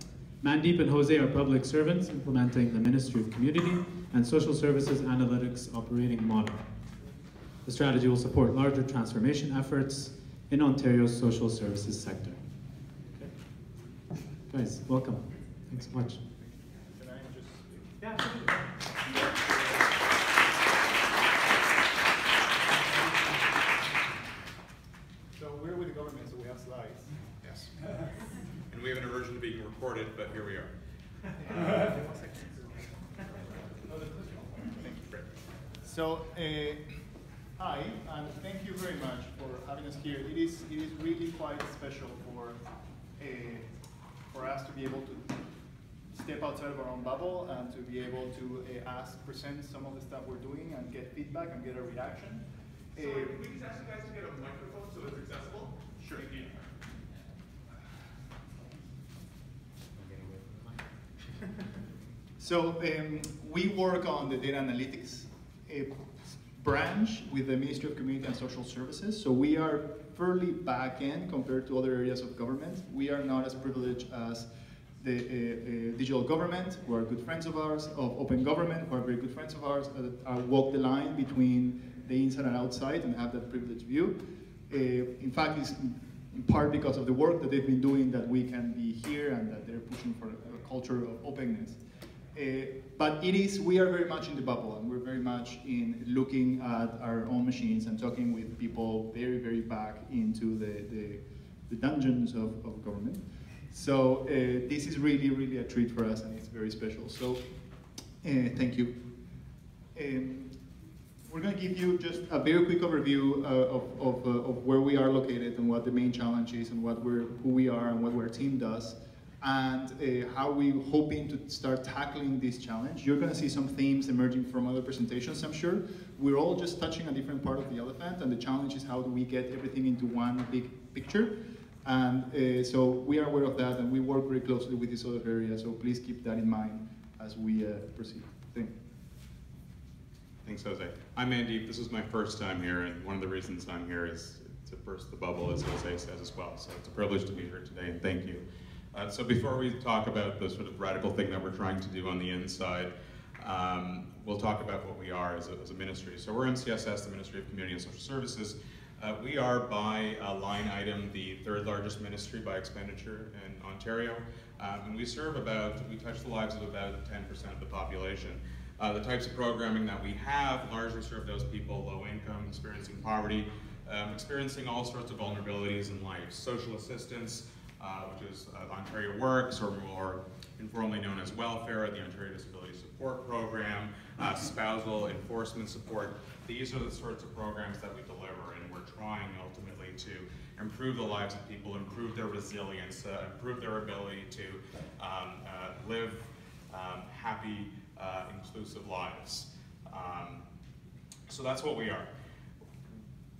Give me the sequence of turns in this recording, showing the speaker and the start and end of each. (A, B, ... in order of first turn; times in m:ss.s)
0:00.4-0:06.6 A
0:07.6-0:12.4 A
0:14.5-0:16.2 A
0:16.4-0:18.0 B
0:18.0-0:18.5 A
0:19.1-0:19.8 B
0:25.3-0:27.1 B
0:27.4-0:27.9 C
0:28.7-0:30.7 C
0:31.4-0:32.6 B
0:34.8-0:35.2 B
0:35.8-0:36.8 B
0:37.6-0:42.6 B
0:43.2-0:43.7 B
0:44.3-0:45.4 B
0:46.1-0:53.4 B
0:53.3-0:56.6 C
1:02.4-1:14.5 B
1:15.0-1:24.2 B
1:24.7-1:31.8 B
1:32.3-1:47.4 B
1:48.2-1:49.0 B
1:49.9-1:50.5 B
1:51.3-2:11.3 B
2:11.8-2:18.7 B
2:20.4-3:20.4 C
3:21.3-3:22.1 C